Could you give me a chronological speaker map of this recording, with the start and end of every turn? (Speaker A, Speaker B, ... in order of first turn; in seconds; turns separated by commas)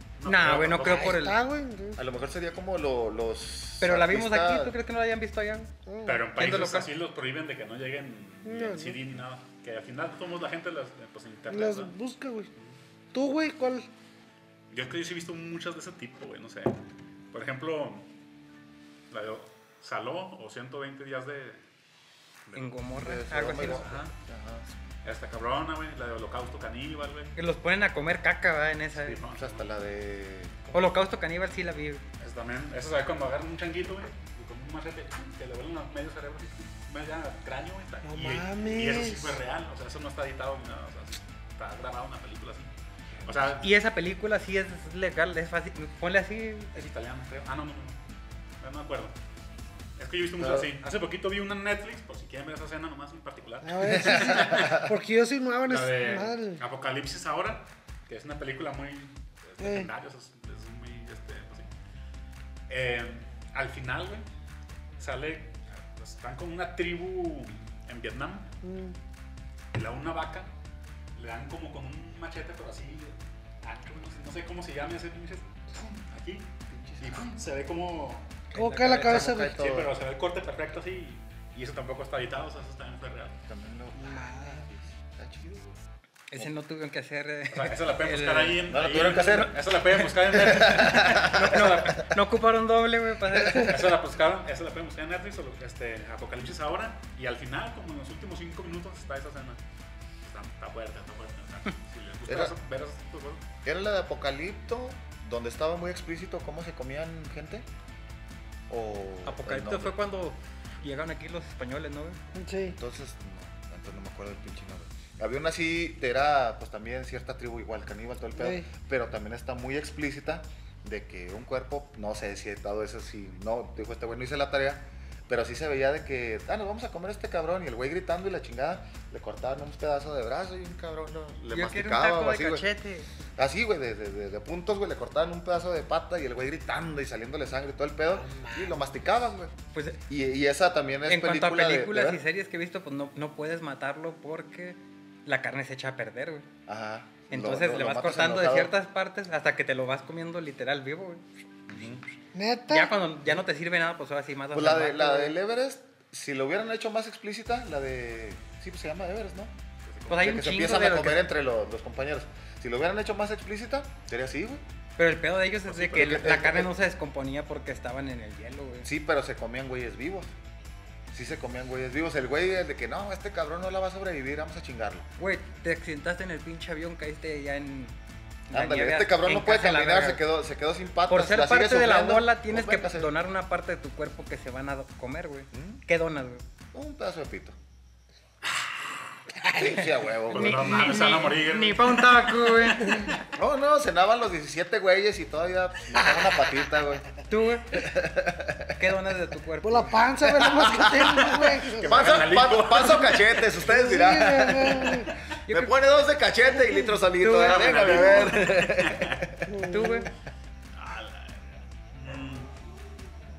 Speaker A: 0.2-1.2, Speaker B: 0.2-1.4, Speaker C: 0.6-2.0, Speaker D: 2.0-4.7, Speaker B: 3.8-5.7, Speaker C: 5.8-6.2, Speaker A: 6.0-11.9, Speaker B: 6.3-6.9, Speaker C: 8.4-9.0, Speaker C: 11.5-12.5, Speaker C: 13.1-13.9, Speaker A: 14.7-18.1, Speaker A: 19.1-21.6, Speaker A: 22.5-22.7, Speaker B: 22.5-23.9, Speaker D: 23.0-24.7, Speaker A: 23.6-24.1, Speaker A: 25.0-27.3, Speaker B: 27.4-29.2, Speaker A: 28.9-29.8, Speaker D: 29.3-30.7, Speaker B: 30.7-32.0, Speaker A: 32.2-42.7, Speaker C: 38.0-39.4, Speaker A: 43.2-43.6, Speaker B: 43.5-46.9, Speaker A: 46.7-48.0, Speaker A: 48.6-49.1, Speaker A: 50.0-54.9, Speaker D: 50.4-50.7, Speaker C: 53.6-56.6, Speaker D: 53.9-54.8, Speaker A: 55.6-61.7, Speaker C: 59.6-59.9, Speaker A: 62.7-64.3, Speaker A: 65.0-68.5, Speaker C: 68.6-69.0, Speaker A: 69.7-70.5, Speaker A: 71.2-78.3, Speaker D: 76.7-77.3, Speaker B: 78.5-79.3, Speaker C: 78.5-79.6, Speaker D: 78.9-80.0, Speaker A: 79.4-83.3, Speaker D: 83.5-85.8, Speaker C: 84.0-84.7, Speaker B: 86.3-88.7, Speaker A: 87.5-92.0, Speaker D: 88.6-92.1, Speaker B: 91.0-93.8, Speaker A: 93.5-99.6, Speaker A: 100.2-103.4, Speaker D: 102.3-102.5, Speaker D: 103.6-107.7, Speaker D: 108.7-109.9, Speaker B: 109.2-112.2, Speaker C: 112.3-112.8, Speaker D: 112.8-132.7, Speaker C: 118.3-118.6, Speaker B: 131.5-133.1, Speaker D: 133.4-139.5, Speaker C: 138.1-138.9, Speaker B: 139.7-140.0, Speaker D: 140.1-142.2, Speaker B: 141.1-146.5, Speaker D: 146.7-148.7, Speaker B: 147.3-151.2, Speaker D: 151.7-152.0, Speaker C: 152.3-152.9, Speaker B: 152.7-155.3, Speaker D: 154.5-159.5, Speaker A: 159.8-160.3, Speaker B: 160.1-161.2, Speaker D: 160.1-164.6, Speaker B: 165.0-168.9, Speaker A: 165.7-166.3, Speaker D: 165.9-166.7, Speaker D: 168.8-170.3, Speaker D: 171.1-175.1, Speaker B: 175.2-177.9, Speaker B: 178.5-180.2, Speaker D: 178.5-183.1, Speaker B: 181.1-186.4, Speaker D: 185.5-185.8, Speaker D: 186.7-187.6, Speaker D: 189.5-190.9, Speaker A: 190.3-193.2, Speaker B: 190.3-193.1, Speaker D: 193.3-197.0, Speaker C: 196.0-196.6, Speaker B: 197.3-197.7, Speaker D: 197.7-198.8, Speaker B: 198.8-200.0, Speaker C: 199.6-202.2, Speaker D: 200.2-201.2, Speaker A: 201.0-203.4, Speaker D: 201.8-209.6, Speaker C: 203.6-205.1, Speaker B: 205.5-205.7, Speaker B: 206.7-208.4, Speaker A: 207.3-209.2, Speaker C: 209.5-210.1, Speaker B: 209.7-210.1, Speaker A: 210.7-212.5